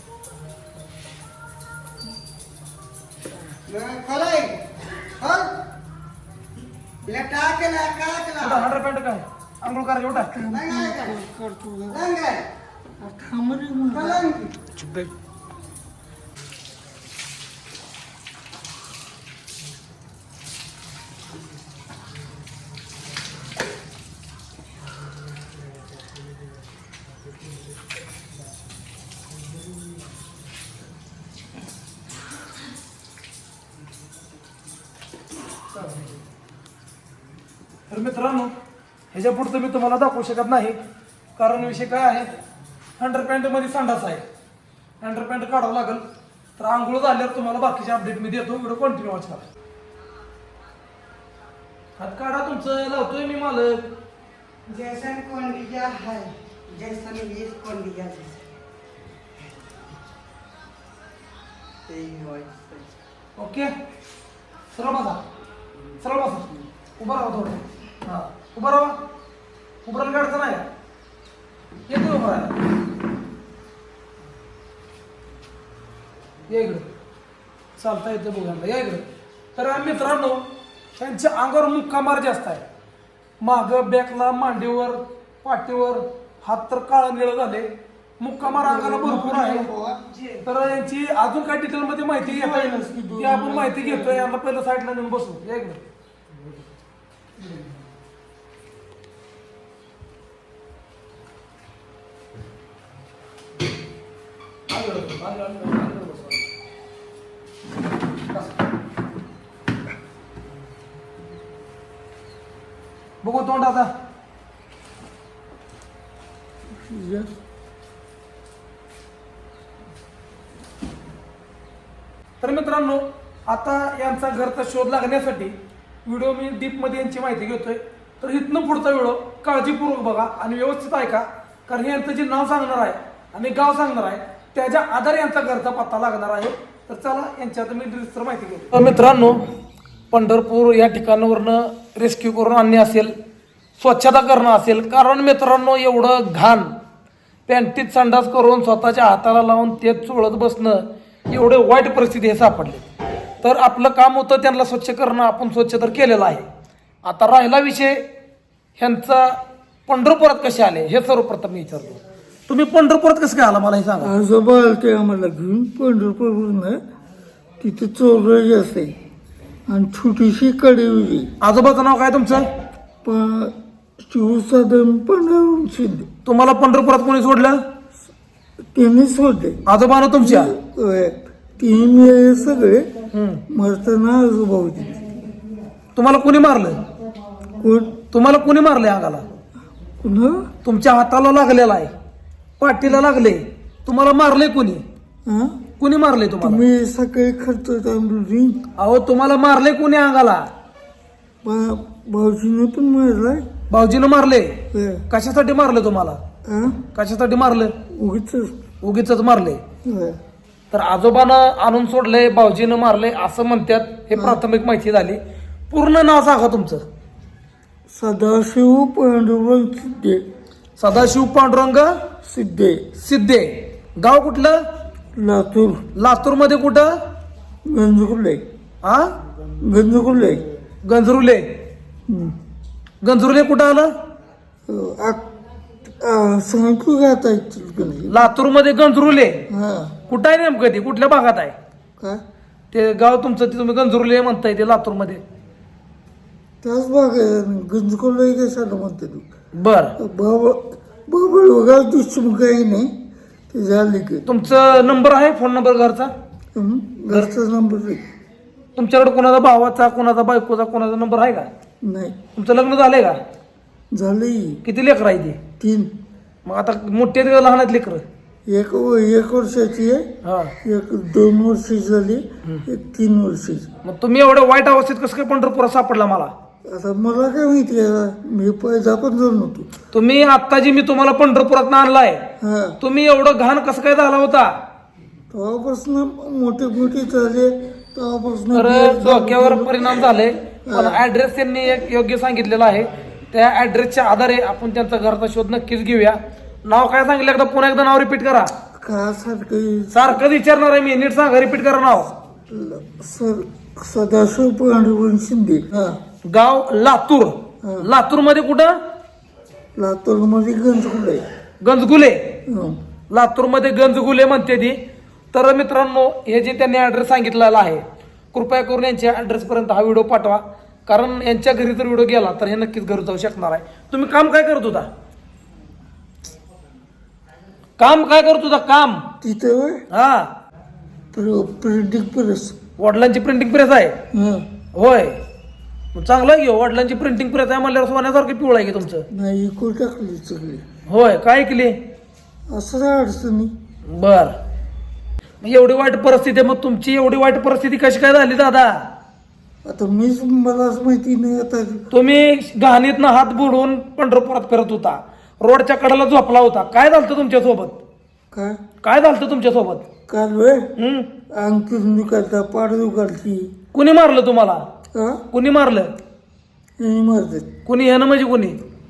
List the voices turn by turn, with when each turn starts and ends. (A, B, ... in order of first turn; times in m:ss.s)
0:03.7-0:05.5 A
0:07.0-0:08.6 A
0:08.4-0:10.4 B
0:10.2-0:12.1 C
0:10.6-0:11.1 A
0:12.0-0:12.4 A
0:13.0-0:14.4 C
0:14.1-0:14.4 A
0:14.8-0:15.1 B
0:37.9-0:38.5 B
0:39.1-0:40.8 B
0:41.4-0:42.3 B
0:43.0-0:44.2 B
0:45.0-0:46.0 B
0:46.6-0:49.4 B
0:52.0-0:53.8 B
0:54.6-0:58.4 A
1:01.9-1:02.8 A
1:03.4-1:03.7 B
1:04.7-1:05.2 B
1:06.0-1:09.0 B
1:09.8-1:10.7 B
1:11.9-1:12.6 B
1:16.5-1:16.9 B
1:17.8-1:19.0 B
1:19.6-1:20.4 B
1:20.9-1:22.6 B
1:23.4-1:27.7 B
1:28.2-1:29.7 B
1:28.4-1:30.3 C
1:30.4-1:35.8 B
1:32.2-1:34.3 C
1:44.7-1:46.5 B
1:53.2-1:53.9 B
1:56.7-1:57.3 C
2:02.4-2:05.5 B
2:06.0-2:19.4 B
2:20.1-2:23.1 B
2:23.8-2:26.7 B
2:27.5-2:32.8 B
2:33.4-2:36.4 B
2:37.0-2:38.0 B
2:38.8-2:44.1 B
2:44.0-2:46.8 C
2:47.6-2:48.9 C
2:49.7-2:51.3 C
2:51.4-2:52.4 B
2:53.0-2:56.1 C
2:56.2-2:57.6 B
2:58.7-2:59.6 C
2:59.6-3:00.5 B
3:00.2-3:02.9 C
3:03.1-3:03.4 B
3:03.5-3:05.2 C
3:05.9-3:06.8 B
3:07.6-3:08.0 C
3:08.1-3:09.2 B
3:10.0-3:10.5 C
3:10.6-3:11.9 B
3:12.6-3:14.8 B
3:15.2-3:15.6 C
3:15.8-3:16.7 B
3:16.4-3:18.6 C
3:18.8-3:20.5 B
3:21.4-3:23.5 C
3:23.7-3:26.2 B
3:24.7-3:25.0 C
3:26.4-3:26.8 C
3:26.9-3:27.7 B
3:27.9-3:28.6 C
3:28.8-3:29.6 B
3:29.8-3:30.2 C
3:30.7-3:35.2 B
3:34.1-3:34.4 C
3:35.7-3:36.8 B
3:37.9-3:40.2 C
3:40.8-3:42.0 B
3:42.2-3:43.0 C
3:43.0-3:44.6 B
3:45.1-3:45.8 C
3:45.9-3:46.9 B
3:47.7-3:48.4 C
3:48.8-3:49.1 B
3:49.6-3:50.4 C
3:50.8-3:51.4 B
3:52.1-3:52.4 C
3:53.0-3:53.9 B
3:54.7-3:55.2 C
3:55.8-3:58.3 C
3:58.1-3:59.4 B
3:59.5-4:00.0 C
4:00.1-4:01.5 B
4:02.7-4:05.2 B
4:06.6-4:09.3 C
4:09.5-4:09.9 B
4:10.0-4:12.9 C
4:13.5-4:14.2 C
4:14.2-4:16.1 B
4:16.5-4:18.0 C
4:18.8-4:21.5 B
4:21.8-4:22.2 C
4:22.3-4:23.2 B
4:23.9-4:24.6 C
4:24.6-4:25.4 B
4:25.6-4:25.9 C
4:26.4-4:28.0 B
4:28.5-4:30.0 C
4:30.2-4:30.5 B
4:30.6-4:33.7 C
4:33.8-4:36.3 B
4:36.6-4:39.7 C
4:39.9-4:42.2 B
4:42.4-4:42.8 C
4:42.8-4:44.5 B
4:45.3-4:50.1 C
4:48.5-4:58.5 B
4:50.6-4:51.0 C
4:58.8-5:00.2 C
4:59.9-5:02.1 B
5:02.5-5:06.0 C
5:06.3-5:08.8 B
5:07.6-5:07.9 C
5:09.8-5:11.2 C
5:11.6-5:12.4 B
5:12.4-5:12.8 C
5:13.1-5:14.8 B
5:15.3-5:24.9 B
5:27.8-5:29.0 B
5:29.2-5:29.8 C
5:29.9-5:30.3 B
5:31.1-5:32.6 C
5:32.8-5:34.0 B
5:34.1-5:34.5 C
5:34.7-5:35.2 B
5:35.9-5:39.0 B
5:39.1-5:40.6 C
5:40.8-5:41.8 B
5:42.5-5:43.5 C
5:43.9-5:44.4 B
5:45.4-5:48.8 B
5:49.6-5:51.9 C
5:51.9-5:57.8 B
5:58.3-5:58.6 C
5:58.8-5:59.8 B
6:00.1-6:00.7 C
6:00.8-6:01.1 B
6:01.3-6:03.5 C
6:03.7-6:04.6 B
6:04.9-6:05.2 C
6:05.3-6:05.9 B
6:06.8-6:07.5 C
6:07.6-6:08.6 B